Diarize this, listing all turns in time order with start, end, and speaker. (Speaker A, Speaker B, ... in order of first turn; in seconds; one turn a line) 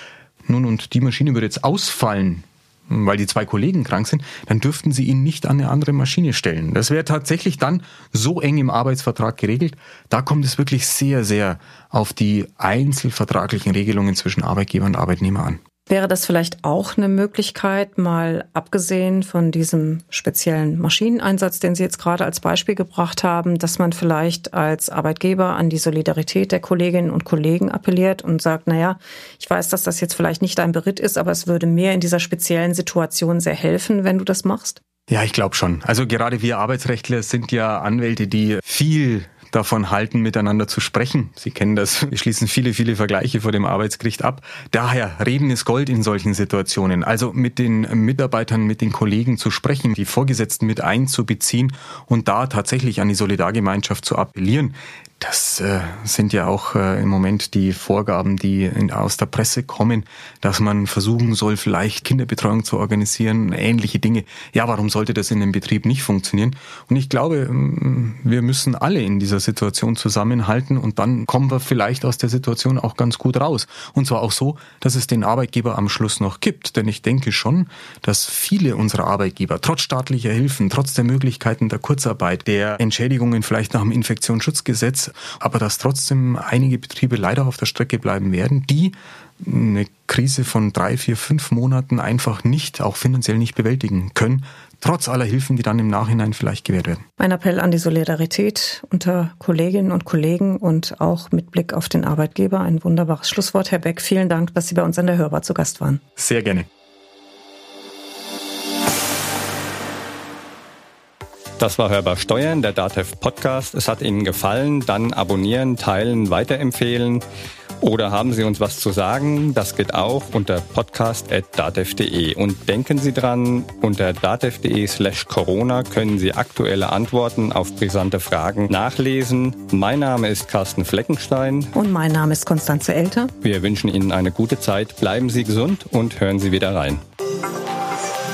Speaker A: 0.5-15.6
Speaker B: 15.9-34.8
Speaker A: 35.1-97.0
Speaker B: 97.2-106.0
Speaker A: 106.2-106.7
Speaker C: 111.6-117.2
Speaker C: 117.8-131.7
Speaker B: 131.7-133.3
Speaker C: 133.4-137.0